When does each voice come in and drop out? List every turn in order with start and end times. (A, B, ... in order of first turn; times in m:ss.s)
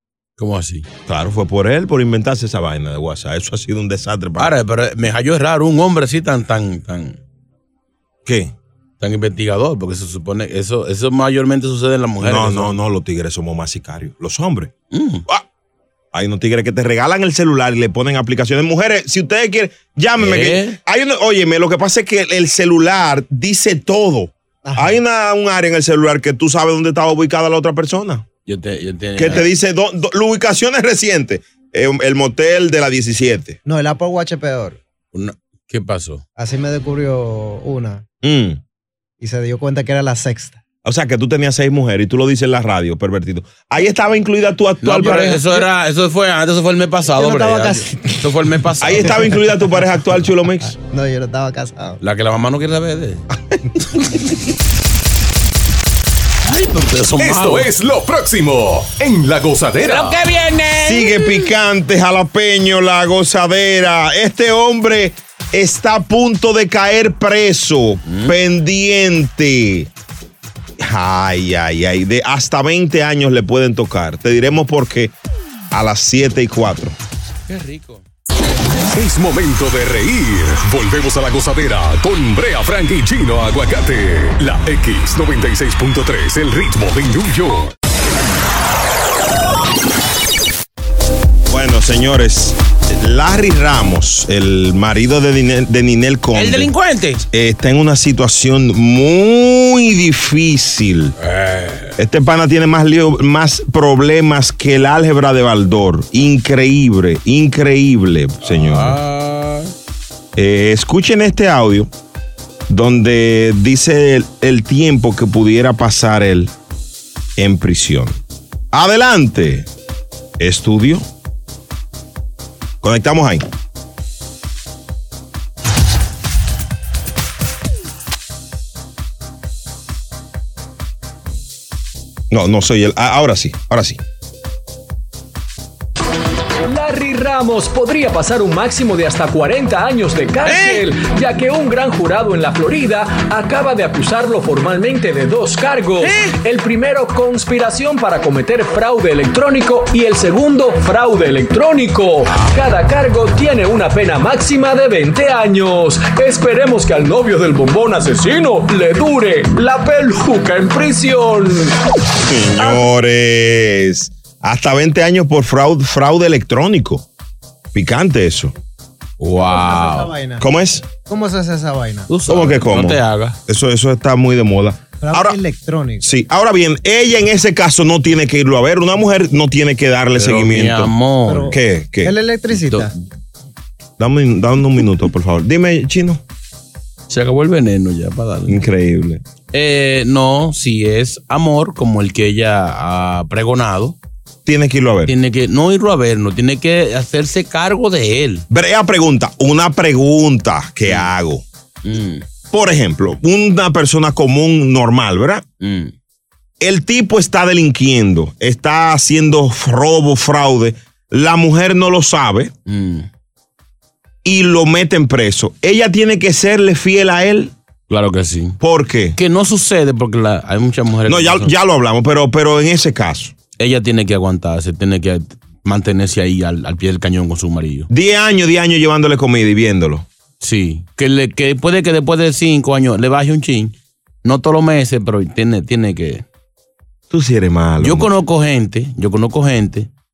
0:00.4-0:00.9 A
0:01.0-0:04.5 B
0:04.4-0:07.2 A
0:08.2-0:08.5 B
0:09.0-0:12.7 A
0:12.2-0:14.7 B
0:14.9-0:15.2 A
0:16.1-0:28.2 B
0:20.2-0:20.8 A
0:24.6-0:25.0 C
0:28.5-0:29.4 A
0:29.2-0:33.6 B
0:33.6-0:34.8 C
0:35.1-0:36.2 A
0:36.4-0:38.0 C
0:38.2-0:38.6 B
0:39.2-0:40.6 C
0:40.8-0:45.4 B
0:44.8-0:49.2 A
0:47.1-0:48.1 C
0:48.8-0:50.7 B
0:49.0-0:49.8 C
0:50.6-0:52.0 C
0:52.0-0:53.2 A
0:56.4-0:57.7 A
0:57.2-1:00.2 D
0:59.8-1:01.2 A
1:00.8-1:09.9 B
1:08.1-1:08.3 A
1:10.8-1:15.1 B
1:15.7-1:16.9 B
1:17.5-1:18.0 A
1:18.9-1:27.7 D
1:31.5-1:41.1 B
1:36.3-1:37.2 A
1:41.2-1:42.0 A
1:42.0-1:49.0 B
1:48.4-1:49.7 A
1:50.4-1:51.9 B
1:52.7-1:56.5 B
1:57.4-1:58.2 B
1:58.7-1:59.7 B
2:00.4-2:01.0 B
2:02.8-2:03.4 B
2:12.3-2:14.0 B
2:16.6-2:41.8 E
2:26.0-2:26.3 A
2:42.2-2:47.0 B
2:47.7-2:48.5 B
2:49.2-2:50.1 A
2:49.4-2:50.4 C
2:50.4-2:50.9 B
2:51.1-2:52.1 C
2:52.1-2:53.4 A
2:52.3-2:55.4 B
2:55.0-2:56.1 C
2:56.0-3:00.9 B
3:00.1-3:01.6 A
3:01.3-3:02.9 C
3:01.5-3:02.2 B
3:02.5-3:02.9 A
3:04.0-3:06.2 B
3:07.1-3:08.6 A
3:08.5-3:09.2 B
3:09.5-3:14.0 A
3:14.4-3:15.1 B
3:15.1-3:18.4 A
3:18.5-3:21.4 B
3:21.8-3:22.2 A
3:22.5-3:25.4 B
3:25.6-3:25.9 A
3:26.6-3:32.5 B
3:32.7-3:33.1 A
3:34.2-3:37.5 B
3:37.9-3:38.6 A
3:38.6-3:39.2 B
3:39.2-3:41.5 A
3:41.1-3:43.3 B
3:43.6-3:47.9 A
3:47.9-3:50.0 B
3:50.4-3:56.2 A
3:57.1-3:58.1 B
3:57.8-3:59.9 A